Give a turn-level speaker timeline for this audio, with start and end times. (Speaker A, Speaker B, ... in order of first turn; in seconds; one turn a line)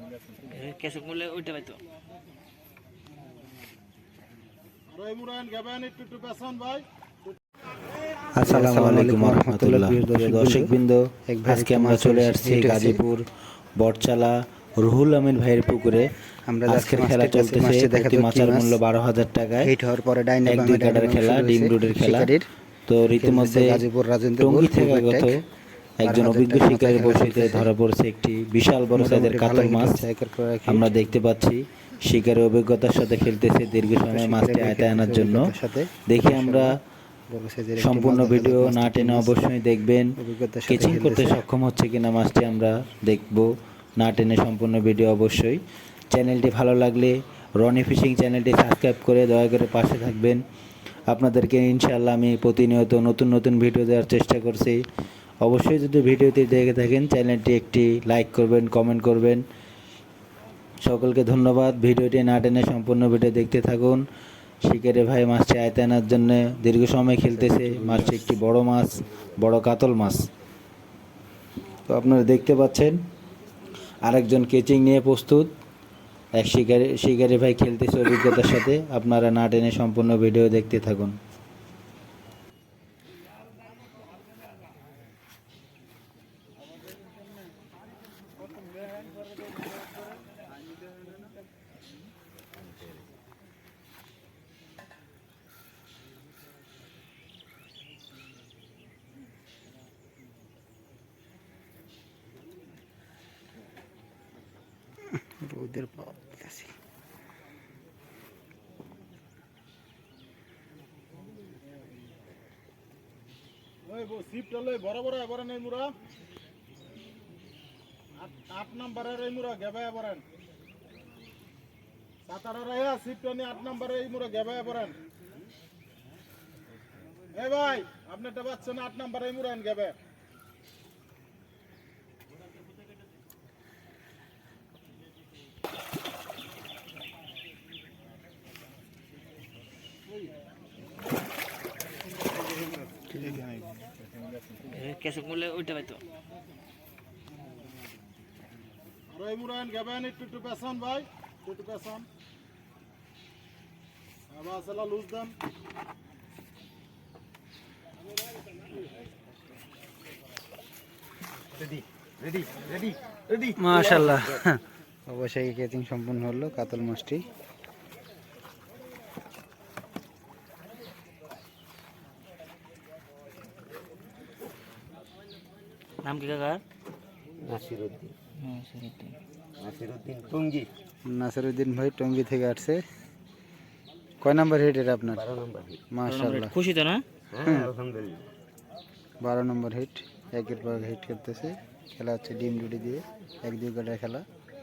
Speaker A: 0.4-1.8
Speaker B: 4.9-6.9
Speaker C: 8.4-16.1
Speaker D: 8.4-13.0
Speaker D: 16.5-18.8
Speaker C: 16.7-19.7
Speaker D: 19.6-22.5
Speaker C: 20.5-22.3
Speaker C: 22.9-23.9
Speaker D: 23.1-25.4
Speaker C: 24.4-25.4
Speaker C: 26.0-30.1
Speaker D: 26.0-27.7
Speaker D: 29.0-30.9
Speaker C: 30.7-35.5
Speaker D: 34.1-36.8
Speaker C: 36.1-36.8
Speaker D: 37.3-39.4
Speaker C: 37.8-50.4
Speaker D: 40.2-41.4
Speaker C: 51.1-54.8
Speaker C: 55.4-59.5
Speaker C: 60.8-64.0
Speaker C: 64.6-70.3
Speaker D: 67.3-68.3
Speaker C: 71.9-73.0
Speaker C: 74.0-75.5
Speaker C: 76.3-81.2
Speaker D: 105.3-106.7
Speaker B: 113.9-116.0
Speaker B: 118.2-120.2
Speaker B: 122.3-125.0
Speaker B: 127.3-130.0
Speaker A: 144.6-146.0
Speaker B: 149.1-152.1
Speaker B: 154.3-155.3
Speaker E: 161.7-163.5
Speaker D: 163.5-167.3
Speaker A: 176.0-176.6
Speaker E: 177.4-178.1
Speaker A: 178.4-179.2
Speaker E: 179.6-180.7
Speaker D: 181.1-182.8
Speaker D: 184.2-185.3
Speaker E: 185.2-185.8
Speaker D: 185.9-186.5
Speaker A: 186.1-187.0
Speaker E: 187.3-188.2
Speaker D: 187.4-187.7
Speaker D: 189.2-194.2